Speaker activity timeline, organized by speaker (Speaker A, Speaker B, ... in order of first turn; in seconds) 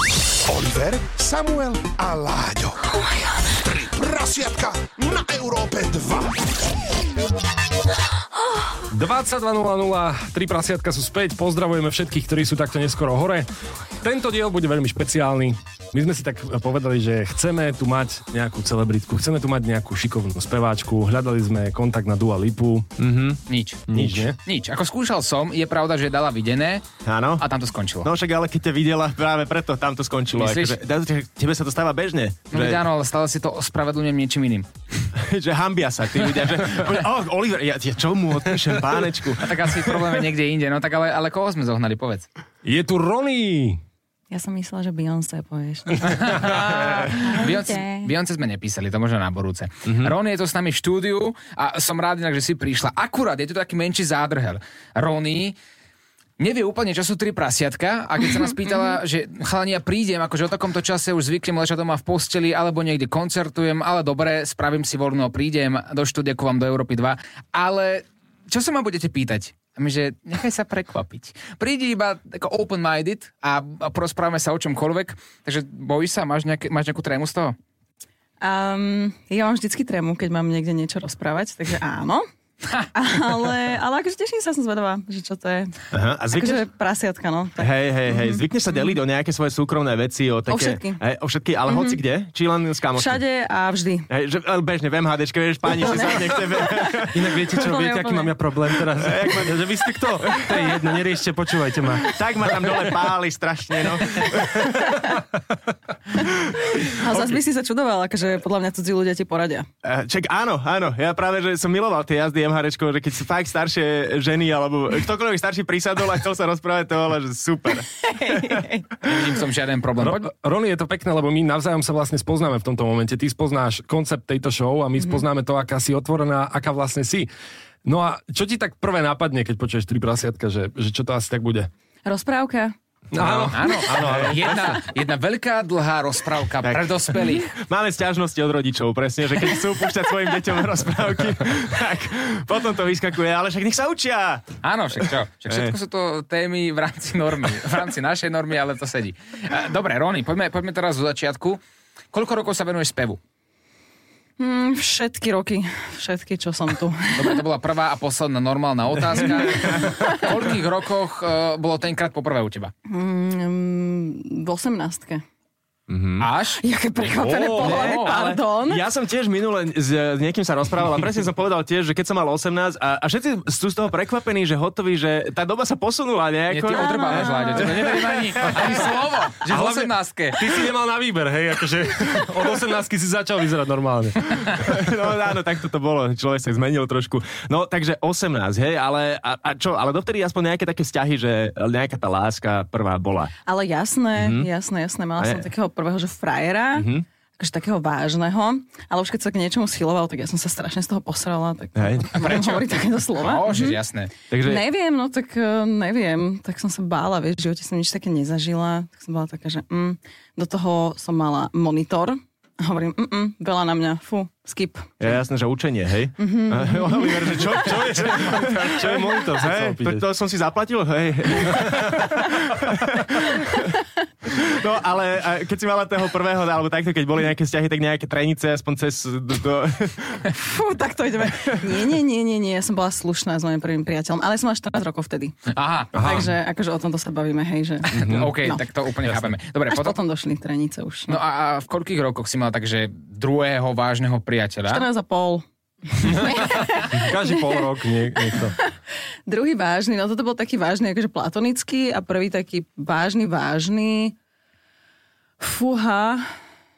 Speaker A: 0.4-6.4
Speaker B: 8.9-13.5, 14.0-22.9, 23.9-24.4, 42.6-43.8, 97.1-102.1, 120.0-127.3, 127.8-131.7, 133.1-134.8, 167.1-167.8, 179.4-184.5, 217.4-220.1, 221.5-222.0, 235.9-236.3, 239.0-239.4, 246.0-248.6
Speaker C: 23.0-24.3, 27.0-27.4, 28.0-32.8, 35.1-40.1, 49.9-50.1, 85.9-86.6, 87.6-93.2, 94.1-97.3, 99.0-99.6, 100.2-100.8, 102.1-105.0, 109.8-118.5, 136.6-144.5, 145.5-145.7, 159.4-159.8, 165.9-166.3, 167.6-178.7, 184.6-193.3, 194.2-194.5, 195.2-195.4, 196.7-197.0, 201.8-202.2, 204.3-204.6, 215.0-223.8, 224.3-230.3, 237.9-238.3
Speaker D: 23.5-23.8, 24.4-26.8, 27.4-28.1, 30.3-30.8, 32.5-34.7, 39.4-42.2, 46.0-55.5, 56.4-77.5, 119.0-120.2, 133.2-137.5, 144.6-153.2, 157.1-162.7, 166.2-166.6, 167.5-168.2, 176.5-180.5, 202.2-204.1, 235.5-236.2, 237.9-239.9, 241.1-244.9
Speaker E: 44.3-48.1, 78.4-82.2, 82.9-85.7, 86.3-88.4, 90.5-91.0, 91.7-92.0, 93.0-94.1, 95.7-98.3, 104.7-105.2, 106.9-109.7, 118.1-118.8, 132.0-132.8, 154.4-157.4, 159.6-160.3, 162.9-165.2, 166.6-168.9, 176.7-178.1, 193.4-196.9, 197.4-203.8, 204.4-215.0, 216.2-217.7, 230.3-235.4, 235.9-238.6, 239.7-241.2, 244.7-247.5, 249.3-254.2, 255.4-256.4